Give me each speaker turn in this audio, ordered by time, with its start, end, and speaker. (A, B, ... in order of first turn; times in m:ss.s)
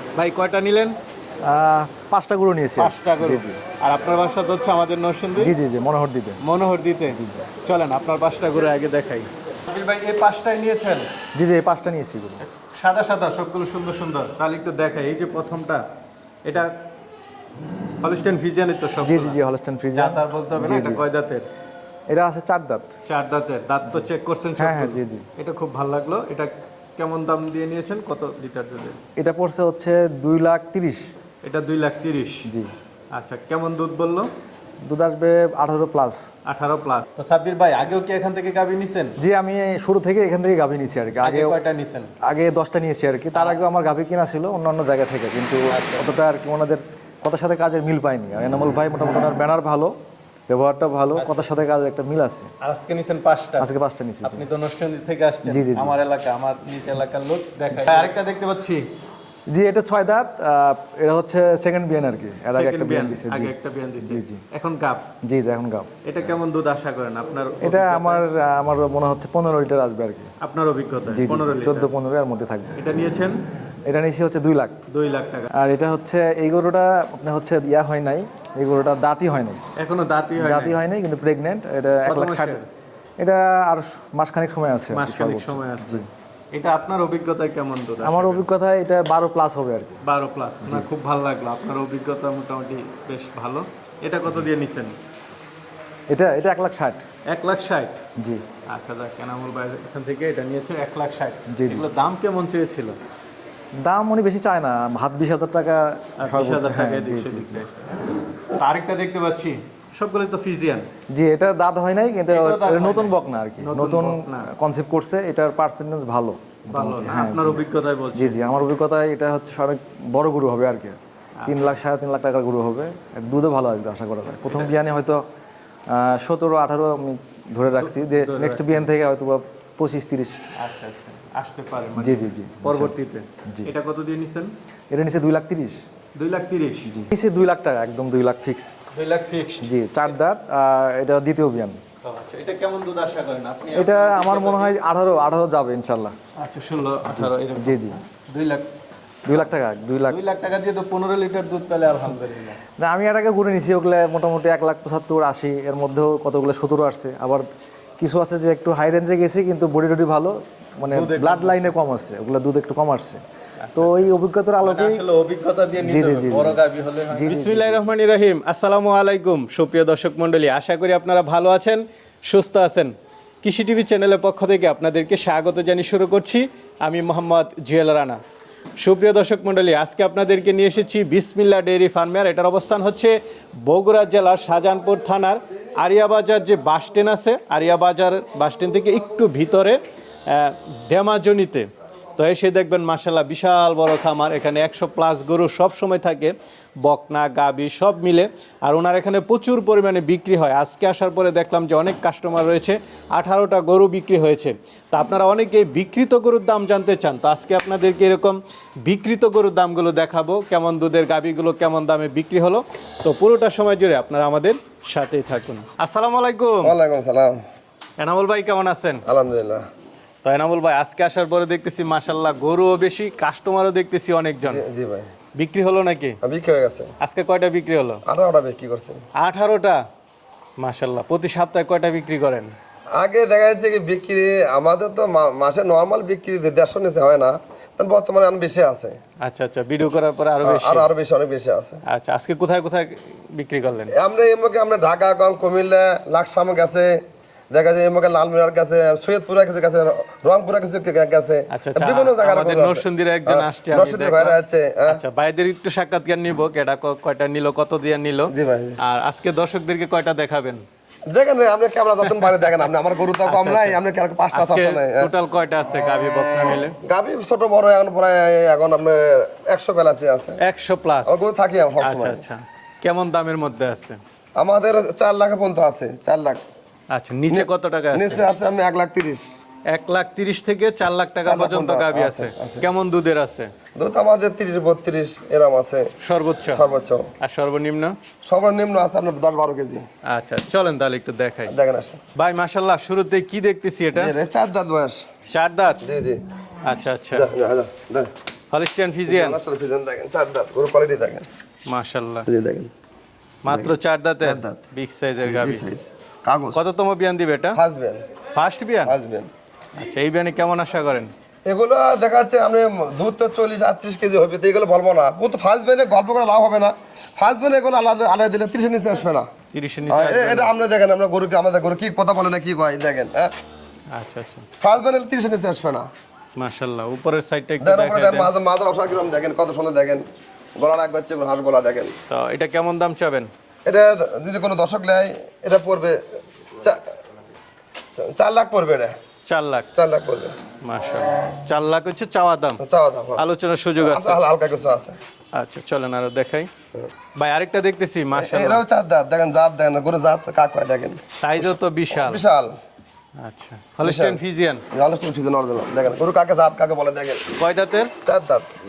0:00.1-0:01.0 A
0:01.4-0:03.6 B
0:02.8-0:05.6 A
0:05.4-0:06.4 B
0:06.4-0:11.1 A
0:07.1-0:07.4 B
0:11.3-0:12.4 B
0:12.4-0:15.8 A
0:16.4-0:16.7 A
0:18.0-0:19.4 A
0:19.0-0:21.0 B
0:20.0-0:21.4 A
0:22.1-0:22.9 B
0:23.0-0:29.0 A
0:24.6-0:25.2 B
0:29.2-0:31.1 B
0:31.4-0:32.4 A
0:32.4-0:32.7 B
0:33.1-0:34.3 A
0:34.8-0:36.2 B
0:36.4-0:39.1 A
0:39.2-0:41.6 B
0:41.2-0:42.1 A
0:42.2-0:49.9 B
0:43.3-0:43.6 A
0:45.7-0:46.2 A
0:50.5-0:52.5 B
0:51.1-0:51.6 A
0:52.6-0:53.7 A
0:53.6-0:54.5 B
0:54.2-0:58.8 A
0:55.4-0:56.0 B
0:59.5-1:04.4 B
1:02.5-1:05.0 A
1:05.2-1:05.9 B
1:06.0-1:08.2 A
1:07.6-1:10.3 B
1:10.4-1:11.9 A
1:11.1-1:12.8 B
1:12.7-1:13.4 A
1:13.9-1:14.8 B
1:14.9-1:15.5 A
1:15.6-1:19.6 B
1:19.8-1:20.8 A
1:20.4-1:22.6 B
1:22.0-1:22.6 A
1:23.2-1:26.0 B
1:24.9-1:28.4 A
1:28.0-1:30.0 B
1:30.0-1:34.9 A
1:30.6-1:30.9 B
1:36.1-1:37.0 B
1:37.3-1:38.0 A
1:38.2-1:38.4 B
1:38.7-1:43.0 A
1:41.5-1:41.8 B
1:43.8-1:47.6 B
1:46.2-1:47.9 A
1:48.5-1:50.8 A
1:51.1-2:05.2 B
1:52.3-1:54.5 A
1:56.7-1:58.4 A
2:01.4-2:01.7 A
2:04.5-2:04.7 A
2:05.9-2:10.4 B
2:07.8-2:08.9 A
2:10.6-2:14.5 A
2:12.0-2:12.9 B
2:14.9-2:15.8 B
2:16.2-2:16.9 A
2:16.9-2:18.7 B
2:18.9-2:19.7 A
2:19.6-2:21.8 B
2:22.0-2:24.7 A
2:23.7-2:26.1 B
2:26.4-2:28.7 A
2:27.1-2:28.0 B
2:29.2-2:30.2 B
2:30.1-2:32.6 A
2:32.8-2:37.4 B
2:38.0-2:43.2 B
2:40.9-2:41.7 A
2:43.6-2:44.1 A
2:43.7-2:45.0 B
2:44.6-2:52.9 A
2:45.8-2:47.8 B
2:53.4-2:58.2 A
2:58.8-3:36.8 A
3:36.6-3:37.4 C
3:38.0-3:39.0 A
3:39.0-3:39.6 C
3:40.2-3:44.6 A
3:44.4-3:45.1 C
3:45.4-3:46.2 A
3:46.2-3:46.9 C
3:47.0-3:48.0 A
3:48.0-3:49.0 C
3:49.2-3:49.8 A
3:50.6-3:52.5 A
3:52.9-3:59.0 C
3:59.2-4:00.9 A
4:00.4-4:01.8 C
4:01.9-4:03.9 A
4:03.9-4:15.0 C
4:11.5-4:20.6 A
4:18.3-4:18.8 C
4:21.1-4:25.1 C
4:23.2-4:23.8 A
4:24.3-4:26.7 A
4:26.8-4:30.4 C
4:30.4-4:31.2 A
4:31.0-4:32.2 C
4:31.8-4:34.0 A
4:34.4-4:36.4 C
4:36.9-4:38.3 A
4:37.3-4:39.2 C
4:39.7-4:43.5 A
4:41.2-4:42.6 C
4:43.8-4:45.9 C
4:46.0-4:46.6 A
4:46.5-4:47.1 C
4:47.2-4:48.0 A
4:48.2-4:49.8 C
4:50.1-4:51.5 A
4:51.5-4:52.0 C
4:52.2-4:54.1 A
4:53.9-4:55.1 C
4:55.3-4:55.8 A
4:55.8-4:56.2 C
4:56.6-4:57.3 A
4:57.1-4:58.1 C
4:58.5-4:59.4 A
4:59.0-5:01.2 C
5:01.7-5:02.3 A
5:02.3-5:02.7 C
5:03.4-5:05.7 A
5:03.5-5:04.6 C
5:05.2-5:06.6 C
5:06.5-5:07.6 A
5:07.5-5:08.0 C
5:08.3-5:08.9 A
5:08.8-5:09.3 C
5:09.7-5:11.1 A
5:11.4-5:19.3 C
5:19.5-5:20.5 A
5:19.9-5:23.3 C
5:23.9-5:24.4 A
5:24.6-5:25.9 C
5:26.3-5:28.3 A
5:27.6-5:30.0 C
5:30.6-5:31.9 C
5:32.1-5:33.3 A
5:33.6-5:36.0 C
5:38.0-5:39.0 C
5:39.3-5:39.7 A
5:39.7-5:40.3 C
5:40.6-5:42.6 A
5:42.6-5:43.2 C
5:43.2-5:44.2 A
5:43.8-5:45.0 C
5:45.3-5:46.5 A
5:47.2-5:48.6 A
5:48.2-5:52.6 C
5:51.2-5:52.2 A
5:53.2-5:54.6 A
5:53.8-5:54.2 C
5:54.7-5:57.3 C
5:57.4-5:57.9 A
5:58.0-5:58.5 C